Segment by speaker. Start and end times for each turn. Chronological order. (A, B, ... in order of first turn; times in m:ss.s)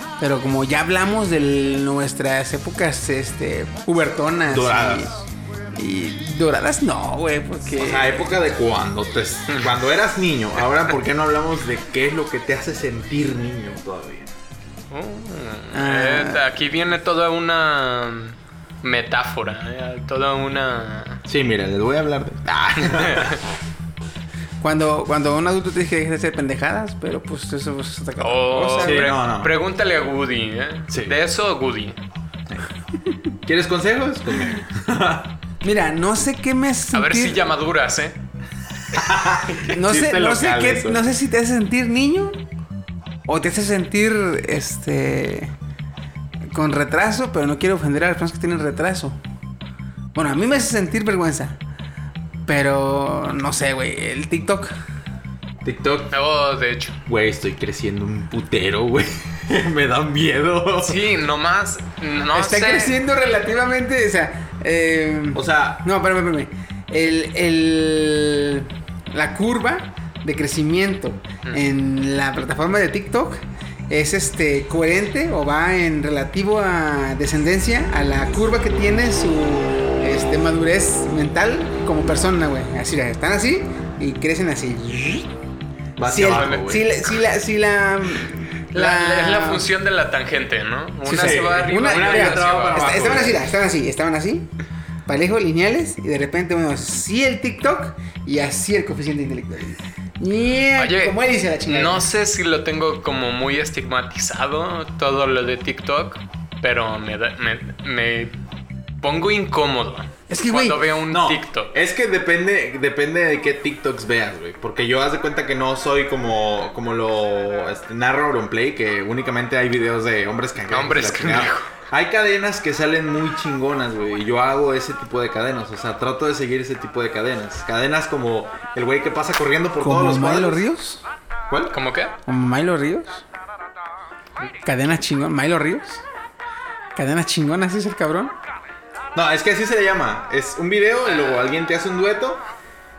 0:00.2-0:05.1 A
0:04.5-0:05.1 B
0:05.8-0:08.3 A
0:07.8-0:14.3 B
0:14.9-0:21.2 C
0:15.7-0:16.4 A
0:21.2-0:23.4 B
0:22.8-0:23.4 C
0:24.6-0:29.1 A
0:28.2-0:32.0 C
0:28.8-0:29.6 B
0:30.9-0:31.2 B
0:33.4-0:35.4 B
0:35.6-0:37.4 A
0:36.9-0:38.2 C
0:38.9-0:41.0 B
0:39.7-0:42.4 A
0:43.3-0:45.5 A
0:46.5-0:49.2 A
0:50.1-0:51.6 A
0:52.4-0:54.7 A
0:55.6-0:56.1 B
0:56.1-0:57.0 C
0:57.1-1:01.0 B
1:00.8-1:03.0 C
1:02.3-1:25.3 A
1:05.3-1:05.8 B
1:26.0-1:26.9 B
1:26.0-1:29.7 A
1:26.3-1:26.6 C
1:28.7-1:32.8 C
1:31.0-1:34.5 A
1:31.2-1:33.4 B
1:35.1-1:42.0 A
1:40.8-1:48.4 C
1:49.0-1:51.8 C
1:50.3-1:50.9 A
1:51.1-2:10.6 B
2:00.7-2:01.7 C
2:09.8-2:11.0 A
2:11.5-2:11.7 B
2:11.7-2:12.1 C
2:12.3-2:13.2 A
2:14.6-2:16.0 A
2:16.9-2:18.3 A
2:19.1-2:22.4 B
2:21.1-2:21.4 C